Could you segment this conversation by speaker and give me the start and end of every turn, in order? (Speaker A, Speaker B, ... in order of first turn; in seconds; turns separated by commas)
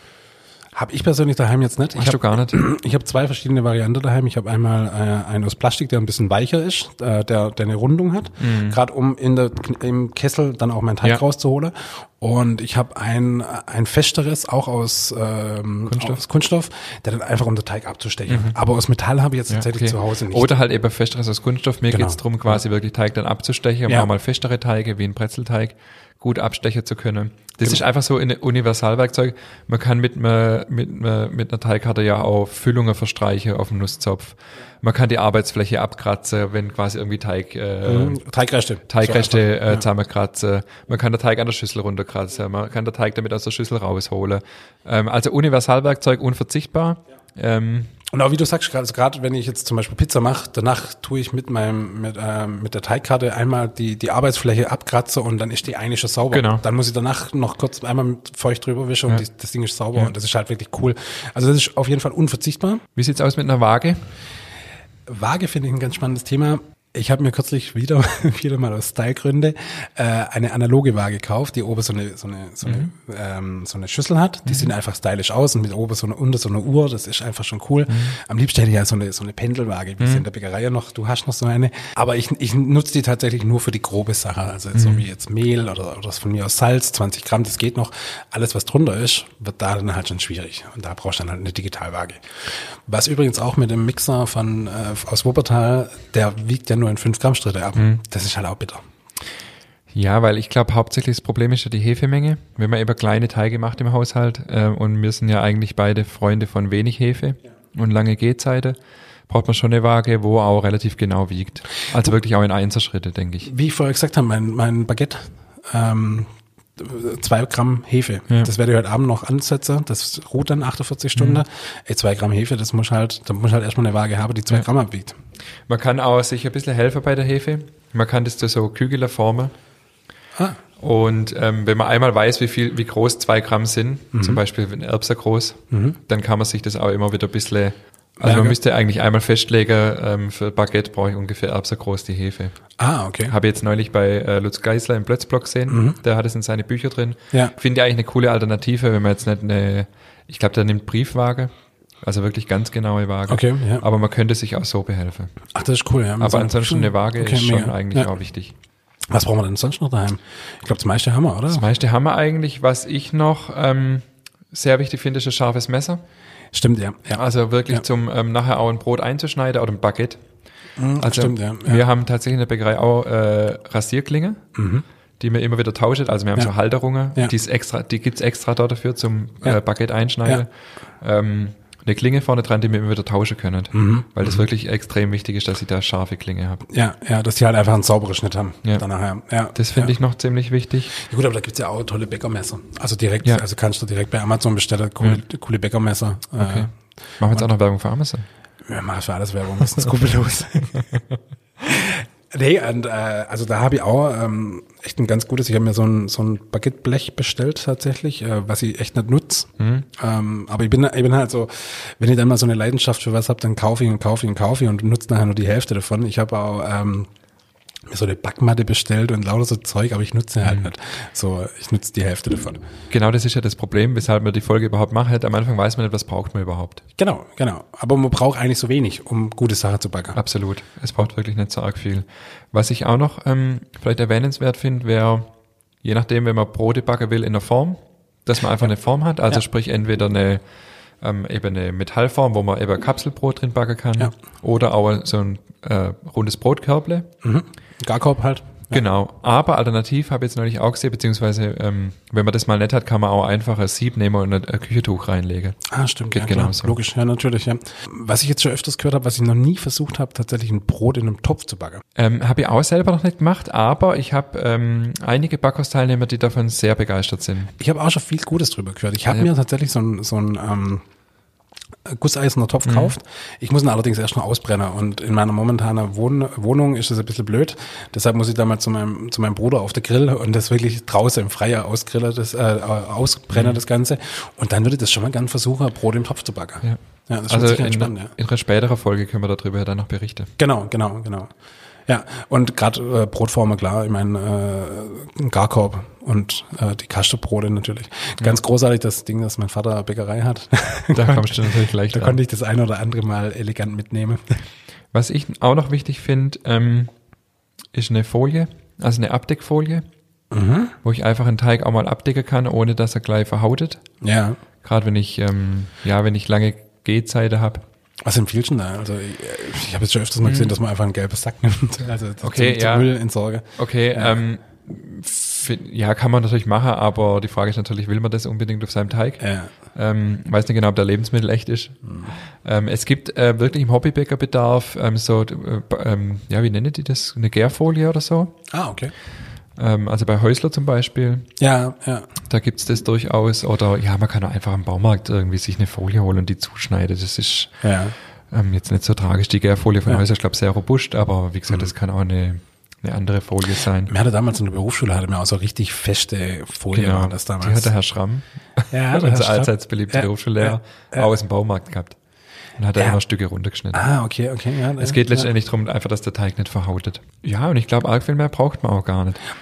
Speaker A: 0.7-20.5, Speaker B: 1.9-2.6, Speaker B: 8.4-8.8, Speaker B: 15.9-16.2, Speaker B: 18.3-18.5, Speaker B: 19.5-38.2, Speaker A: 21.9-22.6, Speaker A: 37.8-39.8, Speaker B: 38.9-48.0, Speaker A: 48.1-62.8, Speaker B: 56.3-56.6, Speaker B: 62.9-64.0, Speaker A: 65.1-98.8, Speaker B: 72.6-72.9, Speaker B: 77.9-78.2, Speaker B: 84.7-85.0, Speaker B: 97.8-98.0, Speaker B: 99.9-108.8, Speaker B: 109.3-113.5, Speaker A: 113.4-125.1, Speaker B: 121.2-121.4, Speaker B: 125.7-129.5, Speaker B: 130.8-142.5, Speaker A: 134.1-134.4, Speaker A: 135.7-136.0, Speaker A: 138.2-138.6, Speaker A: 142.8-143.3, Speaker B: 143.2-151.5, Speaker A: 145.7-146.0, Speaker B: 152.0-155.3, Speaker A: 153.3-153.8, Speaker A: 155.5-158.1, Speaker B: 156.2-158.5, Speaker A: 159.1-161.6, Speaker B: 161.5-166.0, Speaker A: 166.5-167.8, Speaker B: 167.1-170.2, Speaker A: 170.8-171.8, Speaker B: 171.0-174.4, Speaker A: 174.5-174.8, Speaker B: 175.2-186.6, Speaker A: 183.7-184.4, Speaker A: 186.7-189.9, Speaker B: 189.5-190.9, Speaker A: 190.9-196.7, Speaker B: 196.4-198.2, Speaker A: 198.7-200.8, Speaker A: 201.6-217.1, Speaker B: 209.6-209.8, Speaker A: 217.9-222.6, Speaker B: 222.9-226.8, Speaker A: 227.0-230.2, Speaker B: 230.1-235.3, Speaker B: 235.8-240.4, Speaker B: 241.0-247.1, Speaker A: 247.2-248.8, Speaker B: 248.7-255.6, Speaker A: 255.7-261.8, Speaker B: 256.1-256.8, Speaker B: 261.9-267.5, Speaker A: 267.6-270.8, Speaker A: 271.8-288.1, Speaker B: 272.6-272.9, Speaker B: 286.6-290.3, Speaker A: 290.4-291.3, Speaker A: 291.9-304.4, Speaker B: 300.9-302.2, Speaker B: 304.9-306.9, Speaker B: 307.7-309.9, Speaker A: 310.3-310.7, Speaker B: 310.8-313.8, Speaker A: 314.0-314.4, Speaker B: 314.6-317.6, Speaker A: 318.0-324.1, Speaker B: 320.2-320.5, Speaker B: 322.2-322.9, Speaker B: 323.6-338.4, Speaker A: 329.2-329.5, Speaker A: 331.9-332.1, Speaker A: 338.5-338.9, Speaker B: 339.6-341.3, Speaker A: 341.4-342.1, Speaker B: 342.3-347.6, Speaker A: 347.6-347.9, Speaker B: 348.3-353.9, Speaker A: 353.9-357.7, Speaker B: 356.7-362.0, Speaker A: 358.7-361.1, Speaker B: 362.6-363.8, Speaker A: 363.7-365.3, Speaker B: 364.8-369.2